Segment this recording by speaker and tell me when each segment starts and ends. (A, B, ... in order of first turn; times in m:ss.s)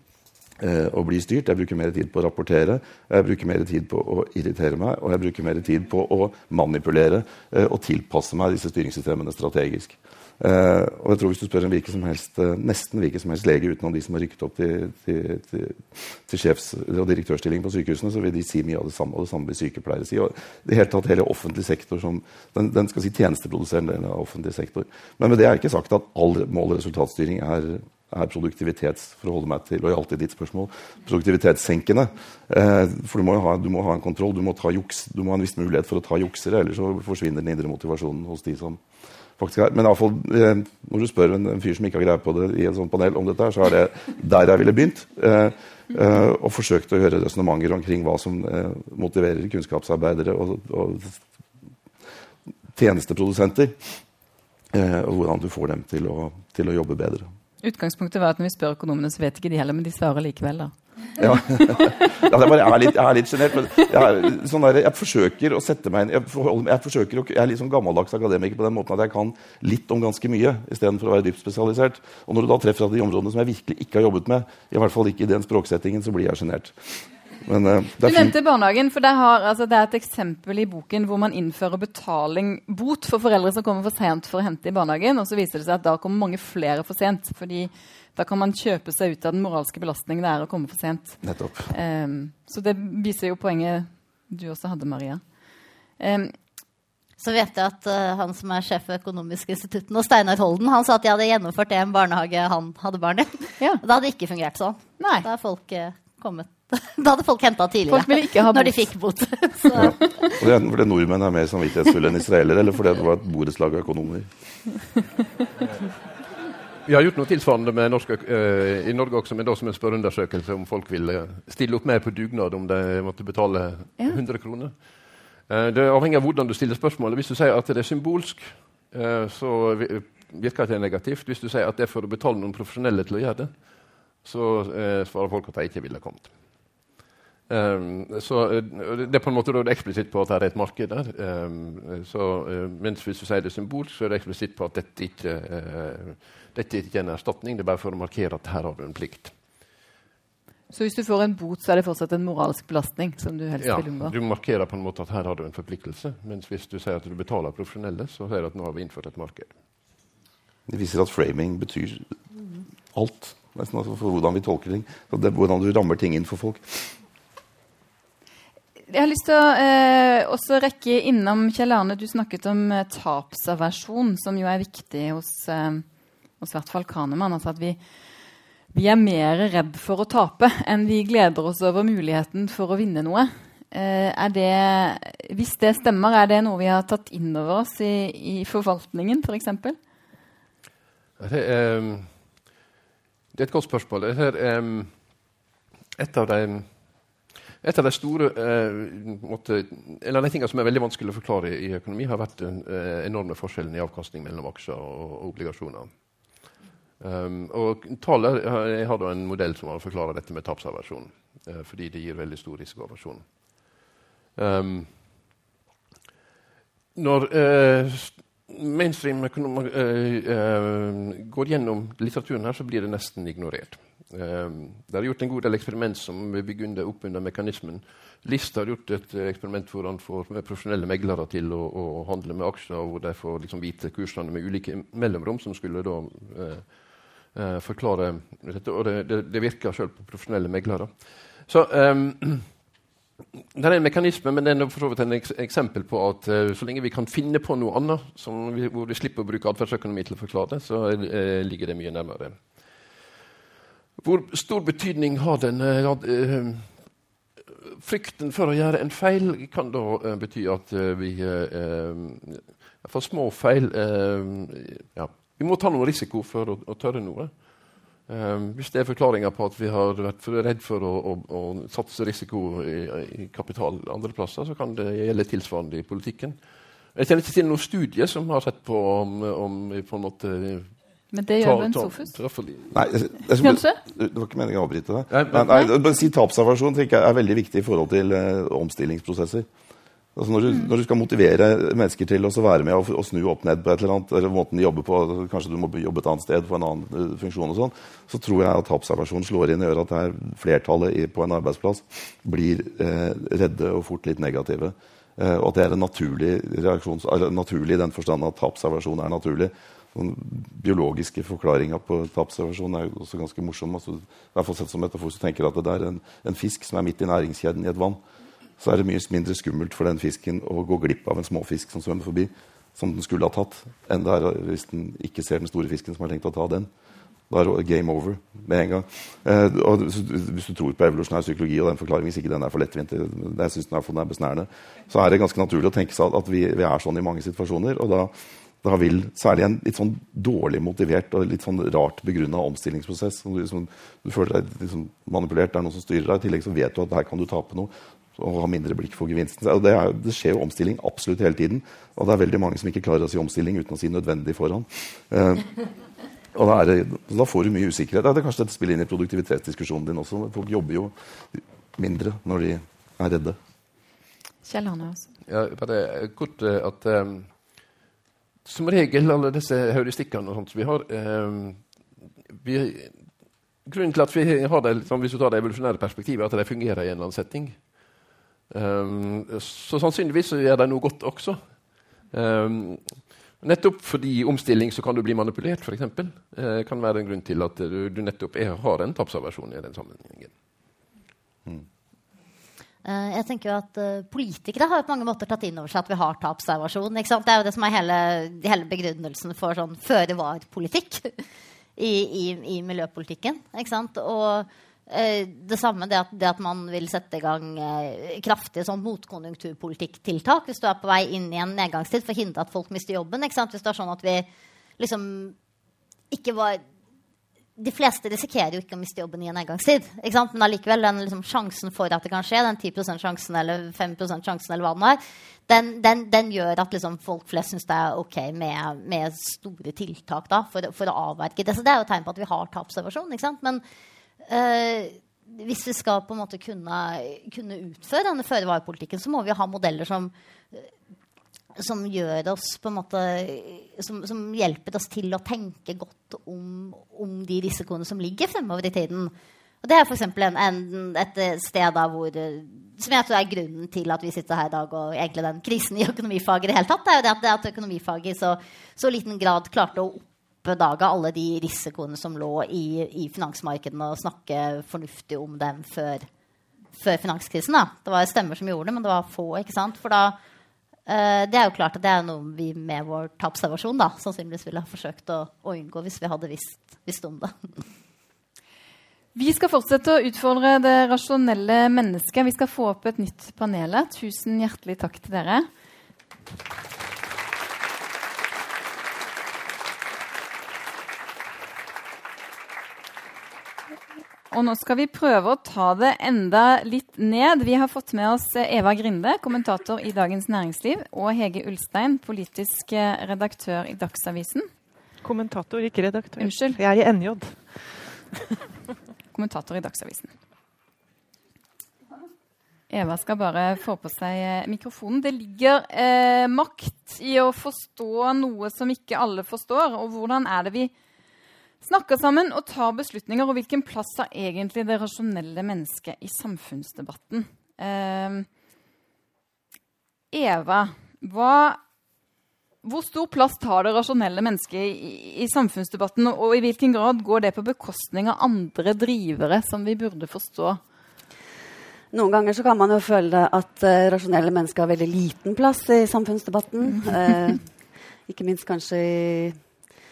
0:00.6-0:38.8 A
0:39.4-0:51.2 A
0:52.7-0:54.0 A
0:54.7-0:57.3 A
0:57.6-1:02.2 B
1:01.2-1:18.3 A
1:18.0-1:35.2 B
1:31.2-1:31.7 A
1:36.0-1:36.3 B
1:37.2-1:50.2 C
1:45.0-1:45.3 B
1:47.9-1:48.9 B
1:49.6-1:50.1 B
1:49.8-1:54.3 A
1:56.8-2:04.8 D
2:05.5-2:13.6 D
2:14.2-2:16.3 D
2:17.5-2:29.3 D
2:30.7-2:34.1 B
2:33.6-2:39.5 D
2:40.7-2:42.1 A
2:42.9-2:46.9 A
2:48.9-2:55.8 B
2:56.4-2:57.8 B
2:58.7-3:09.8 B
3:11.2-3:12.1 D
3:13.3-3:14.9 D
3:16.0-3:16.7 D
3:17.6-3:26.5 D
3:27.0-3:33.8 D
3:34.4-3:34.9 D
3:36.9-4:02.5 D
4:03.5-4:12.4 D
4:14.0-4:16.9 D
4:17.6-4:36.4 D
4:36.9-4:40.8 D
4:41.1-4:42.1 B
4:41.4-4:42.7 D
4:42.7-4:49.5 A
4:43.4-4:43.8 B
4:45.1-4:45.6 D
4:50.2-5:18.0 A
5:18.6-5:26.7 A
5:27.3-5:38.1 A
5:38.6-5:55.5 A
5:56.3-6:03.4 A
6:04.4-6:05.1 B
6:05.2-6:07.3 D
6:08.4-6:11.6 D
6:12.3-6:13.0 D
6:13.6-6:17.8 D
6:18.5-6:30.3 D
6:32.8-6:41.1 C
6:41.8-6:54.3 C
6:54.8-6:55.4 C
6:56.1-6:56.6 C
6:57.6-7:13.6 C
7:14.2-7:20.7 C
7:21.6-7:46.1 C
7:46.7-7:50.2 C
7:50.9-7:57.5 C
7:59.1-8:05.5 B
8:14.3-8:24.5 B
8:25.0-8:27.8 E
8:26.2-8:26.6 B
8:29.1-8:30.1 B
8:32.7-8:40.7 B
8:41.6-8:48.3 B
8:50.1-8:51.6 B
8:52.6-9:00.6 B
9:01.9-9:07.5 F
9:08.1-9:09.4 F